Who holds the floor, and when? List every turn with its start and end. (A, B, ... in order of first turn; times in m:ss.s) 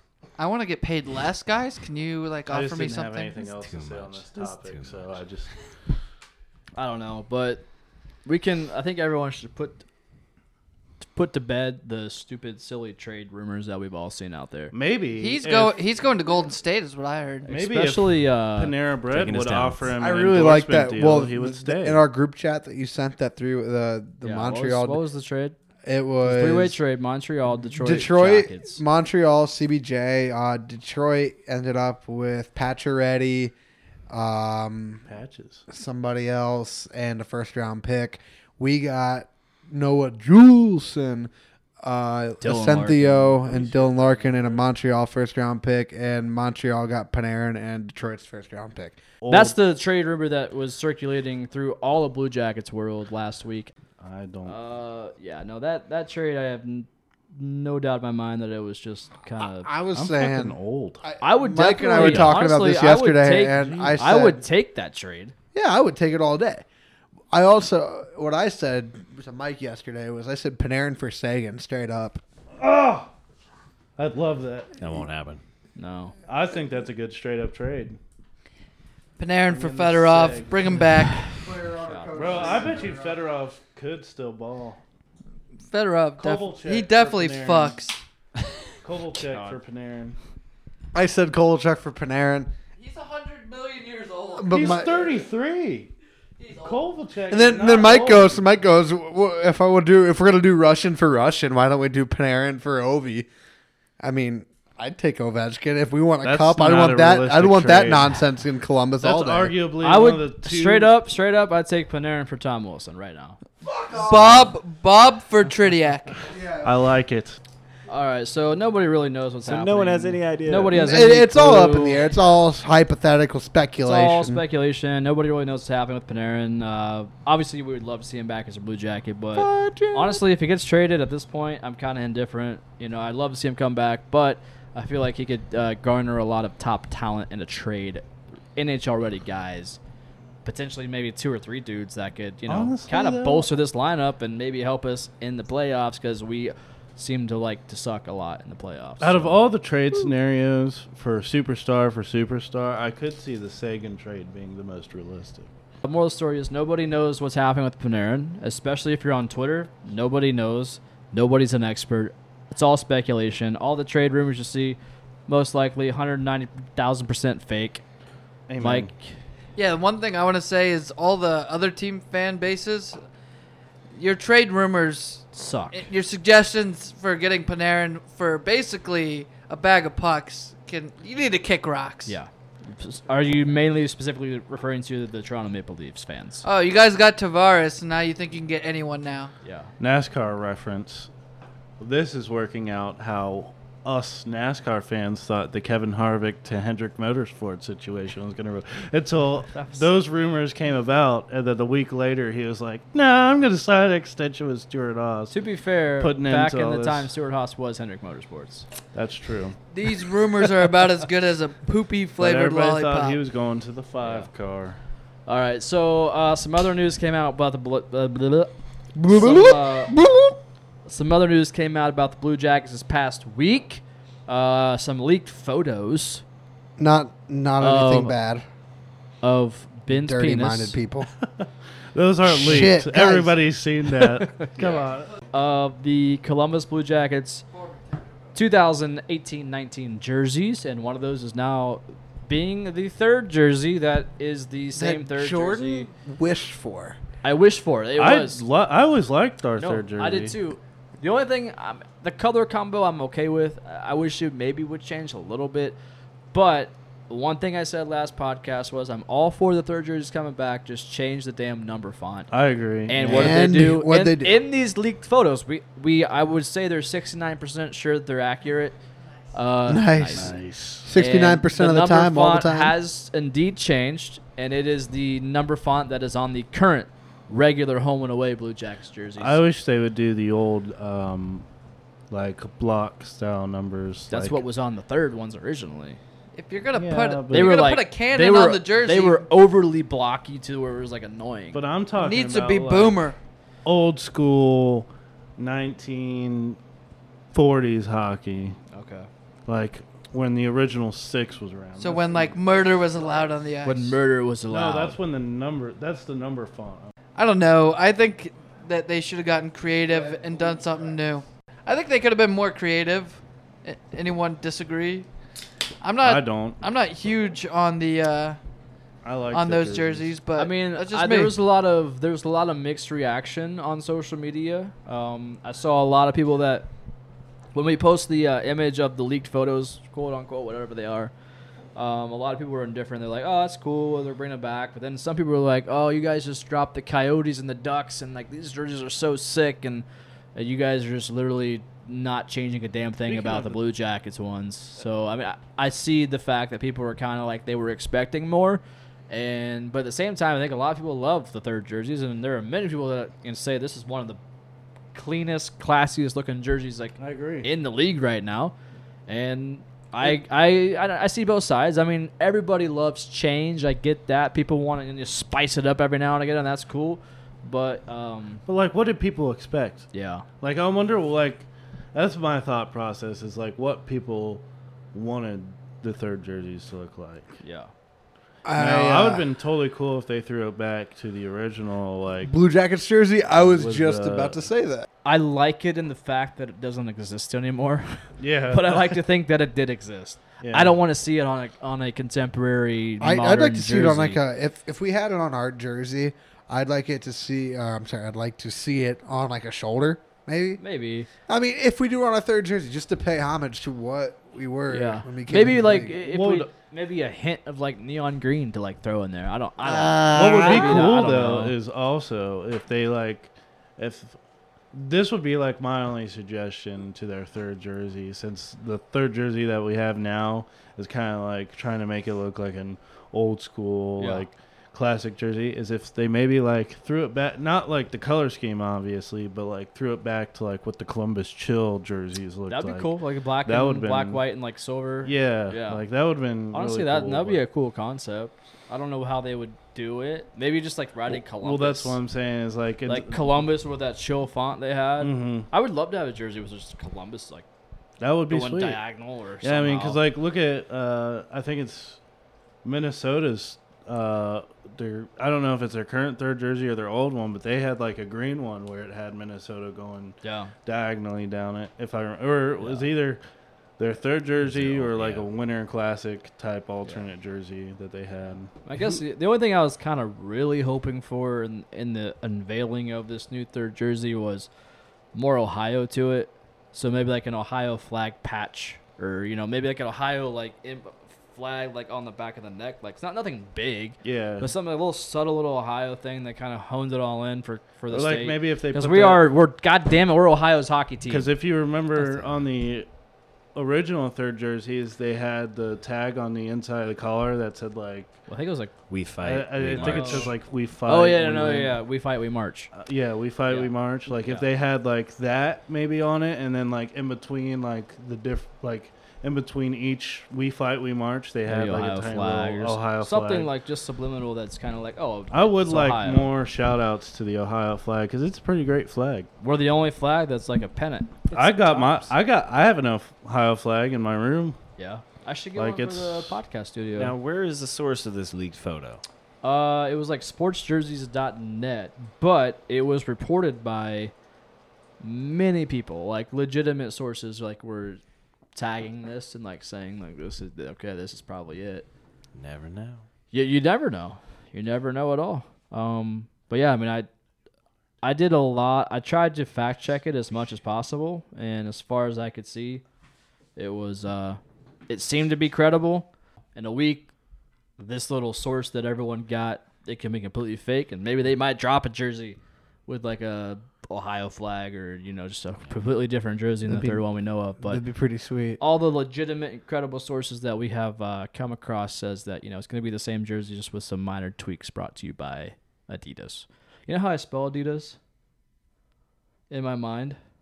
0:00.4-0:03.4 A
0:02.5-0:05.5 B
0:03.5-0:05.2 C
0:06.8-0:07.6 D
0:08.2-0:09.8 D
0:11.0-0:14.7 D
0:14.7-0:15.8 B
0:15.2-0:17.5 A
0:17.5-0:18.8 D
0:17.5-0:22.0 B
0:19.1-0:19.9 C
0:20.0-0:25.0 E
0:24.2-0:25.6 D
0:25.8-0:26.8 E
0:26.2-0:28.8 D
0:27.8-0:33.5 E
0:34.1-0:35.0 E
0:35.1-0:35.6 B
0:35.7-0:41.3 E
0:41.8-0:49.0 E
0:42.4-0:43.6 D
0:43.5-0:44.6 B
0:49.2-0:49.6 B
0:49.3-0:53.7 D
0:54.0-0:54.6 B
0:54.4-0:59.7 D
0:59.4-1:04.4 E
0:59.9-1:01.0 B
1:01.2-1:05.3 D
1:01.9-1:02.5 B
1:03.6-1:04.1 B
1:05.5-1:06.6 E
1:07.3-1:12.2 E
1:12.6-1:13.1 B
1:14.0-1:14.7 B
1:14.8-1:15.4 C
1:15.8-1:16.2 D
1:16.3-1:18.0 B
1:19.2-1:21.3 A
1:19.5-1:20.9 B
1:21.4-1:23.2 E
1:21.8-1:22.7 D
1:22.1-1:24.8 B
1:25.7-1:28.0 A
1:26.2-1:27.8 B
1:28.8-1:30.2 B
1:29.1-1:29.6 D
1:30.9-1:32.5 E
1:32.8-1:35.2 A
1:34.4-1:35.0 E
1:34.5-1:35.9 B
1:36.4-1:36.8 A
1:36.6-1:38.4 B
1:37.3-1:43.3 E
1:44.0-1:49.6 E
1:46.2-1:48.2 B
1:49.0-1:50.9 B
1:49.8-1:53.4 D
1:53.6-1:54.6 E
1:54.0-1:56.2 A
1:56.3-1:56.8 E
1:56.6-1:57.4 B
1:57.9-2:02.1 D
1:59.5-2:00.8 C
2:00.7-2:04.4 E
2:03.8-2:18.0 D
2:09.3-2:10.2 E
2:18.6-2:19.8 D
2:20.4-2:29.4 D
2:22.5-2:23.5 B
2:29.0-2:35.5 B
2:35.8-2:47.8 D
2:48.5-2:48.9 B
2:48.6-2:49.1 D
2:49.6-2:53.0 A
2:53.9-3:02.2 A
2:55.3-2:55.8 D
3:02.1-3:06.4 D
3:06.4-3:09.3 A
3:09.4-3:09.7 D
3:09.8-3:11.1 B
3:11.8-3:25.4 B
3:19.5-3:19.9 D
3:25.3-3:28.7 D
3:26.0-3:27.1 B
3:28.9-3:29.6 B
3:29.7-3:33.2 A
3:32.2-3:34.8 B
3:34.0-3:34.3 D
3:35.3-3:38.5 D
3:39.0-3:40.4 E
3:39.0-3:40.0 D
3:40.8-3:46.2 D
3:46.8-3:48.4 E
3:47.6-3:48.2 D
3:49.2-3:50.8 D
3:49.9-3:51.1 E
3:51.2-3:55.1 B
3:52.2-3:53.4 E
3:54.2-3:54.5 D
3:55.3-3:57.4 D
3:57.5-3:58.2 A
3:58.3-4:05.9 D
4:04.8-4:07.0 E
4:07.2-4:08.4 D
4:08.0-4:10.4 B
4:09.6-4:15.8 D
4:16.3-4:22.3 D
4:22.3-4:23.6 B
4:22.9-4:28.8 D
4:23.0-4:24.4 E
4:29.3-4:30.3 D
4:29.7-4:32.8 E
4:30.2-4:30.9 B
4:31.0-4:39.4 D
4:39.2-4:41.5 B
4:42.1-4:44.4 B
4:44.1-4:46.0 D
4:46.3-4:49.3 A
4:46.8-4:47.7 B
4:47.3-4:51.6 D
4:51.5-4:53.1 B
4:52.0-4:53.2 A
4:53.6-4:56.6 B
4:57.3-4:58.6 B
4:58.7-4:59.1 D
4:59.5-5:02.4 B
5:01.8-5:04.0 A
5:03.7-5:05.0 D
5:04.5-5:06.9 B
5:07.2-5:15.1 A
5:15.8-5:18.4 A
5:16.0-5:16.6 B
5:19.0-5:20.2 B
5:19.3-5:21.4 A
5:20.4-5:26.7 D
5:27.5-5:31.1 D
5:31.8-5:54.2 D
5:43.0-5:43.6 B
5:54.9-5:58.6 D
5:57.0-5:57.5 B
5:59.1-6:08.4 D
6:08.5-6:17.3 B
6:09.9-6:10.3 D
6:17.4-6:17.7 D
6:18.4-6:19.3 E
6:18.6-6:22.3 B
6:22.3-6:24.9 E
6:23.3-6:24.4 B
6:25.0-6:34.2 D
6:28.2-6:29.0 B
6:30.4-6:30.8 B
6:33.0-6:40.6 E
6:40.6-6:41.1 D
6:41.3-6:45.9 E
6:44.7-6:51.6 D
6:45.9-6:46.5 B
6:49.7-6:50.8 E
6:50.1-6:54.2 B
6:54.7-7:14.2 B
7:04.0-7:04.3 D
7:12.5-7:15.8 D
7:15.0-7:17.4 B
7:16.5-7:22.0 D
7:21.1-7:23.3 B
7:22.9-7:27.4 D
7:25.0-7:25.5 B
7:28.0-7:28.8 B
7:28.3-7:30.0 D
7:29.4-7:32.0 B
7:32.6-7:43.2 B
7:40.2-7:40.5 D
7:42.6-7:42.9 D
7:43.8-7:48.5 B
7:44.4-7:45.3 C
7:48.7-7:54.5 D
7:55.1-8:11.3 D
8:04.0-8:04.5 B
8:07.9-8:09.3 B
8:11.1-8:12.9 B
8:12.0-8:12.4 D
8:13.6-8:18.2 B
8:18.3-8:18.7 D
8:18.9-8:20.3 C
8:19.2-8:21.8 B
8:19.7-8:20.3 D
8:20.8-8:22.7 D
8:22.7-8:33.5 B
8:23.5-8:24.5 D
8:31.4-8:36.3 D
8:35.3-8:39.3 B
8:39.4-8:42.1 D
8:41.3-8:44.6 B
8:44.8-8:47.2 D
8:45.6-8:46.4 B
8:47.0-8:49.0 C
8:49.4-8:54.1 D
8:55.0-8:58.0 D
8:58.6-9:01.9 D
9:02.4-9:03.0 C
9:03.3-9:07.1 D
9:08.0-9:12.8 D
9:13.6-9:17.1 D
9:17.8-9:27.8 D
9:26.7-9:27.1 E
9:27.6-9:28.6 E
9:28.6-9:38.0 D
9:39.5-9:40.2 D